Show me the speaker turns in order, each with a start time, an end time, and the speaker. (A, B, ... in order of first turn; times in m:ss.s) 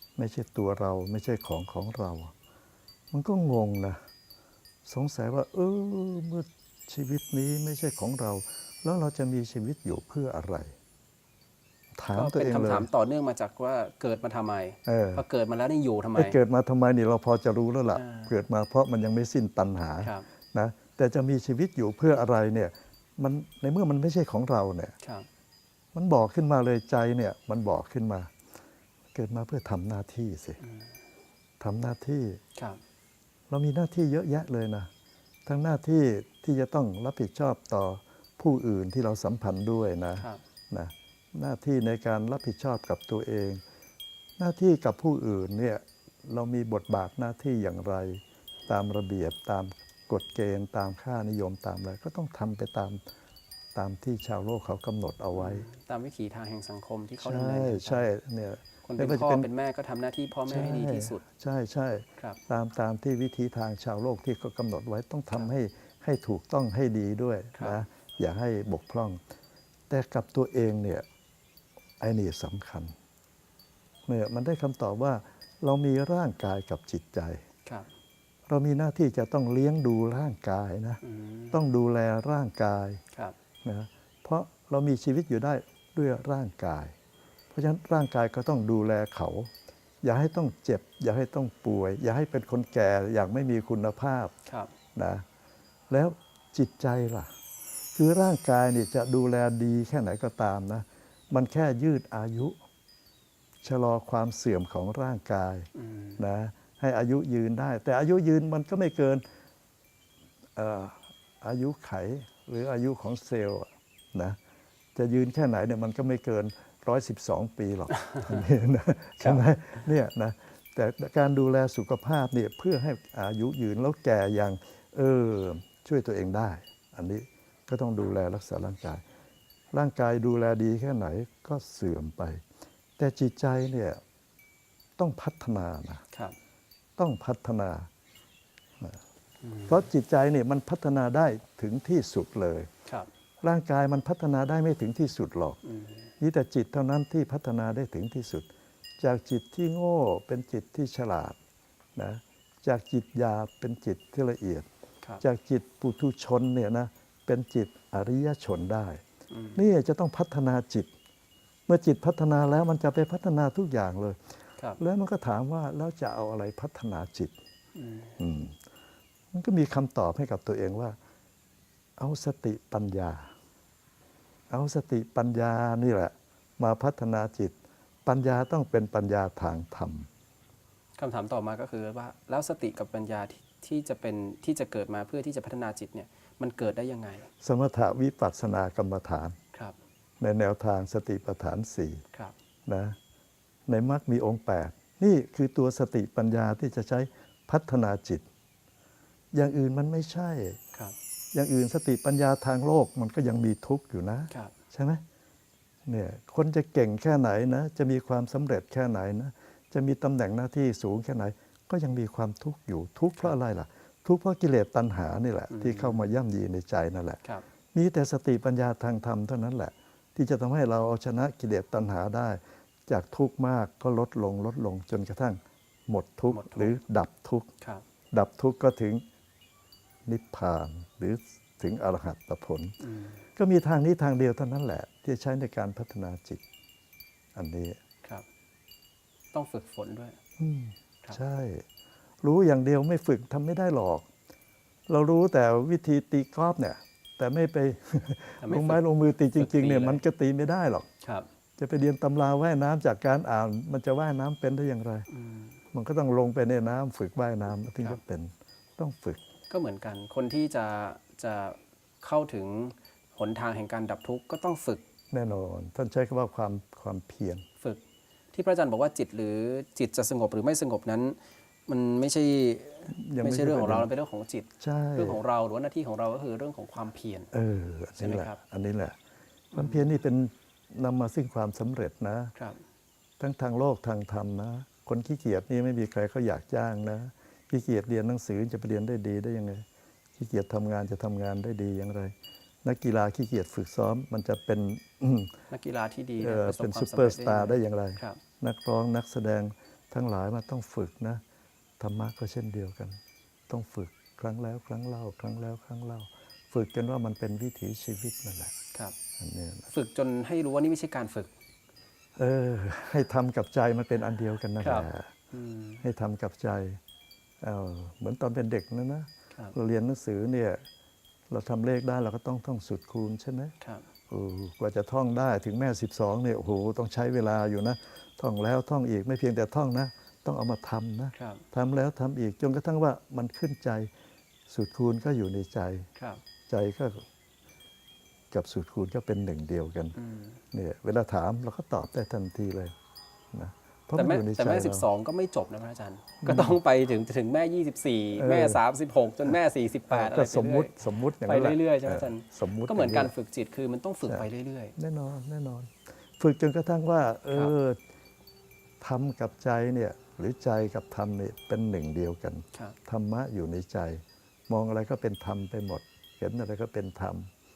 0:00.2-0:02.3 A
0:03.1-0:04.0 A
0:04.8-0:10.7 A
0:12.0-0:12.9 A
0:12.1-0:16.4 B
0:14.8-0:15.2 A
0:16.1-0:24.9 A
0:17.9-0:18.3 B
0:20.0-0:20.3 B
0:25.0-0:25.3 B
0:25.9-0:28.3 A
0:29.1-0:30.6 A
0:30.6-0:30.9 B
0:31.6-0:32.4 A
0:33.5-0:34.9 A
0:35.4-0:43.6 A
0:40.2-0:40.4 B
0:44.4-0:53.0 A
0:53.7-0:55.7 A
0:55.3-0:58.1 B
0:57.2-0:59.5 A
0:58.8-1:01.2 B
1:00.4-1:09.2 A
1:07.6-1:07.8 B
1:09.9-1:11.0 A
1:12.0-1:12.9 A
1:14.0-1:17.4 A
1:18.5-1:23.0 A
1:21.0-1:21.6 B
1:23.6-1:26.9 A
1:27.5-1:29.5 A
1:30.0-1:34.3 A
1:34.4-1:34.7 B
1:34.9-1:35.2 A
1:35.9-1:37.3 A
1:37.9-1:42.6 A
1:43.6-1:45.7 A
1:45.7-1:46.2 B
1:46.2-1:49.2 A
1:50.5-1:54.4 A
1:54.9-2:09.0 A
2:09.7-2:12.4 A
2:13.0-2:14.0 A
2:15.0-2:16.0 A
2:17.0-2:17.9 A
2:19.4-2:19.8 B
2:19.7-2:22.7 A
2:23.4-2:25.6 A
2:25.6-2:26.1 B
2:26.2-2:28.5 A
2:29.0-2:31.4 A
2:32.0-2:34.7 A
2:35.2-2:39.0 A
2:39.3-2:39.6 B
2:39.6-2:40.9 A
2:41.7-2:44.2 A
2:44.8-2:47.3 A
2:47.7-2:48.2 B
2:48.2-2:48.6 A
2:49.3-2:51.0 A
2:52.0-2:53.3 A
2:54.5-3:00.1 A
3:01.0-3:07.3 B
3:07.4-3:09.4 A
3:10.2-3:12.0 A
3:12.6-3:13.0 A
3:13.7-3:18.2 A
3:19.3-3:20.6 A
3:21.3-3:25.0 A
3:25.9-3:37.2 A
3:35.5-3:36.0 B
3:37.7-3:47.5 A
3:46.3-3:46.8 B
3:48.1-3:49.0 A
3:50.0-3:52.8 A
3:52.8-3:53.2 B
3:53.4-3:56.4 A
3:57.3-3:57.8 A
3:59.3-4:00.2 B
4:00.4-4:01.6 A
4:02.2-4:04.1 A
4:04.9-4:10.9 A
4:08.4-4:08.8 B
4:09.3-4:10.0 B
4:11.0-4:11.3 B
4:11.6-4:15.1 A
4:15.1-4:15.6 B
4:15.7-4:19.2 A
4:17.6-4:18.0 B
4:19.5-4:24.8 B
4:25.1-4:27.4 A
4:28.3-4:37.3 B
4:32.9-4:33.9 A
4:34.6-4:35.2 A
4:37.3-4:39.0 A
4:38.0-4:38.4 B
4:39.5-4:39.9 B
4:39.5-4:42.3 A
4:42.3-4:42.6 B
4:43.2-4:49.6 A
4:50.2-4:55.3 A
4:55.5-4:58.2 B
4:56.2-5:01.2 A
5:01.8-5:03.0 A
5:03.5-5:08.5 A
5:09.2-5:09.7 A
5:09.7-5:11.3 B
5:12.2-5:15.1 A
5:14.6-5:15.8 B
5:15.8-5:16.8 A
5:17.4-5:20.6 A
5:21.3-5:23.5 A
5:23.6-5:23.8 B
5:24.1-5:33.9 A
5:31.1-5:31.4 B
5:34.5-5:35.9 A
5:36.0-5:36.2 B
5:36.5-5:37.0 A
5:38.3-5:40.0 A
5:40.0-5:40.4 B
5:40.5-5:42.7 A
5:43.3-5:44.9 A
5:43.9-5:54.7 B
5:46.2-5:46.6 A
5:48.2-5:48.6 A
5:49.9-5:53.1 A
5:54.0-5:57.8 A
5:58.8-6:07.3 A